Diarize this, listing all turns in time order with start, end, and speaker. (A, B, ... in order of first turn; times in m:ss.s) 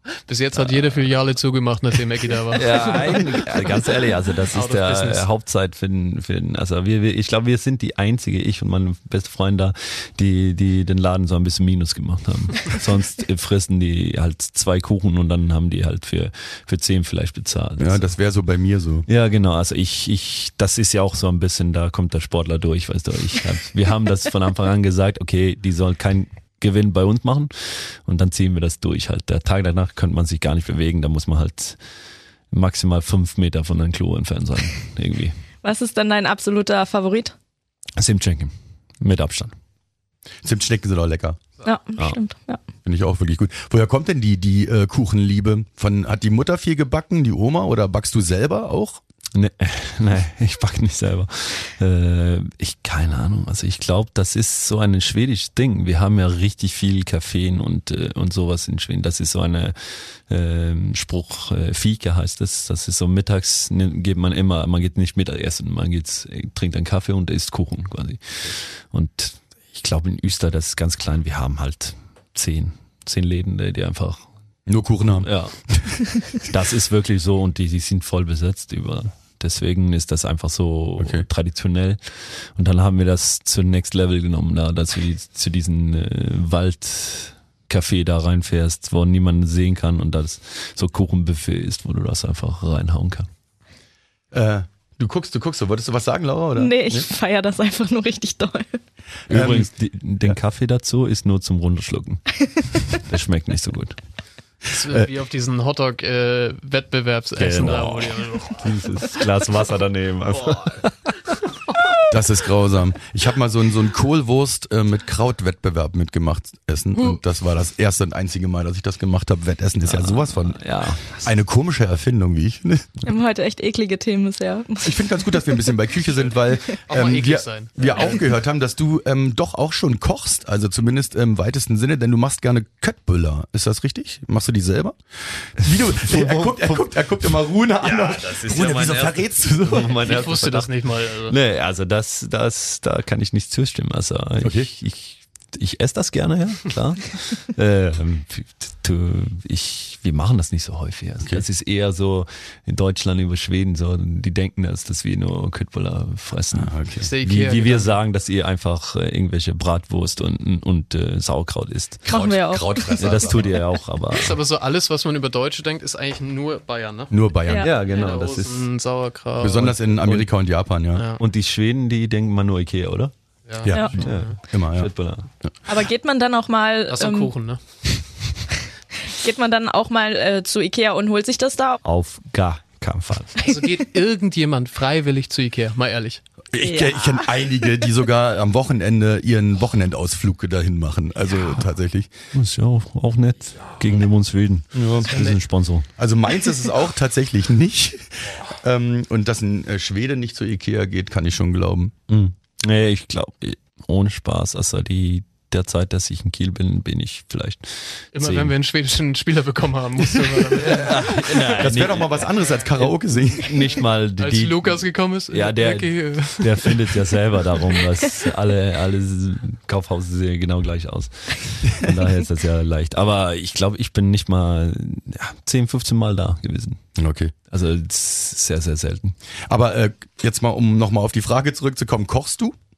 0:00.2-0:03.8 A
0:00.6-0:01.0 B
0:02.5-0:18.1 B
0:04.5-0:05.2 A
0:17.8-0:19.1 C
0:19.1-0:31.8 B
0:32.5-0:35.3 B
0:35.6-0:37.3 D
0:38.0-0:39.5 B
0:40.4-0:41.4 C
0:41.6-0:42.6 D
0:42.8-0:49.0 C
0:49.3-1:14.2 B
1:14.7-1:16.0 C
1:15.1-1:15.7 B
1:16.3-1:33.3 B
1:21.0-1:21.2 C
1:34.3-1:37.0 C
1:36.6-1:38.8 D
1:39.3-1:39.7 C
1:39.3-1:44.0 B
1:44.7-1:48.8 A
1:44.7-1:45.1 C
1:47.4-1:51.4 B
1:52.1-2:02.9 C
1:59.8-2:01.2 B
2:03.0-2:05.6 D
2:04.8-2:20.0 C
2:06.9-2:08.3 A
2:15.9-2:17.0 B
2:17.8-2:42.0 B
2:19.9-2:21.4 A
2:24.4-2:24.7 C
2:36.5-2:37.1 C
2:37.0-2:38.0 A
2:42.0-2:43.5 C
2:42.0-2:43.6 D
2:43.0-2:44.4 B
2:44.1-2:47.2 A
2:47.1-2:47.8 C
2:47.4-2:47.7 D
2:47.6-2:48.7 B
2:47.8-2:49.8 A
2:49.4-2:51.1 C
2:49.6-2:50.3 B
2:50.9-2:51.2 A
2:51.2-2:53.1 B
2:53.5-2:54.4 A
2:53.6-2:54.9 C
2:53.7-2:54.0 D
2:54.0-2:55.3 B
2:55.6-2:57.3 D
2:56.9-2:57.6 A
2:59.0-3:01.8 D
3:01.8-3:03.5 B
3:03.4-3:06.2 A
3:06.5-3:12.1 C
3:06.6-3:07.3 D
3:12.3-3:15.9 B
3:14.7-3:15.2 C
3:15.1-3:15.4 A
3:16.0-3:21.9 C
3:22.1-3:28.5 B
3:28.1-3:31.3 A
3:30.5-3:46.8 B
3:31.6-3:33.6 C
3:34.2-3:36.9 A
3:47.0-3:47.3 C
3:47.5-3:49.1 B
3:49.5-3:52.5 C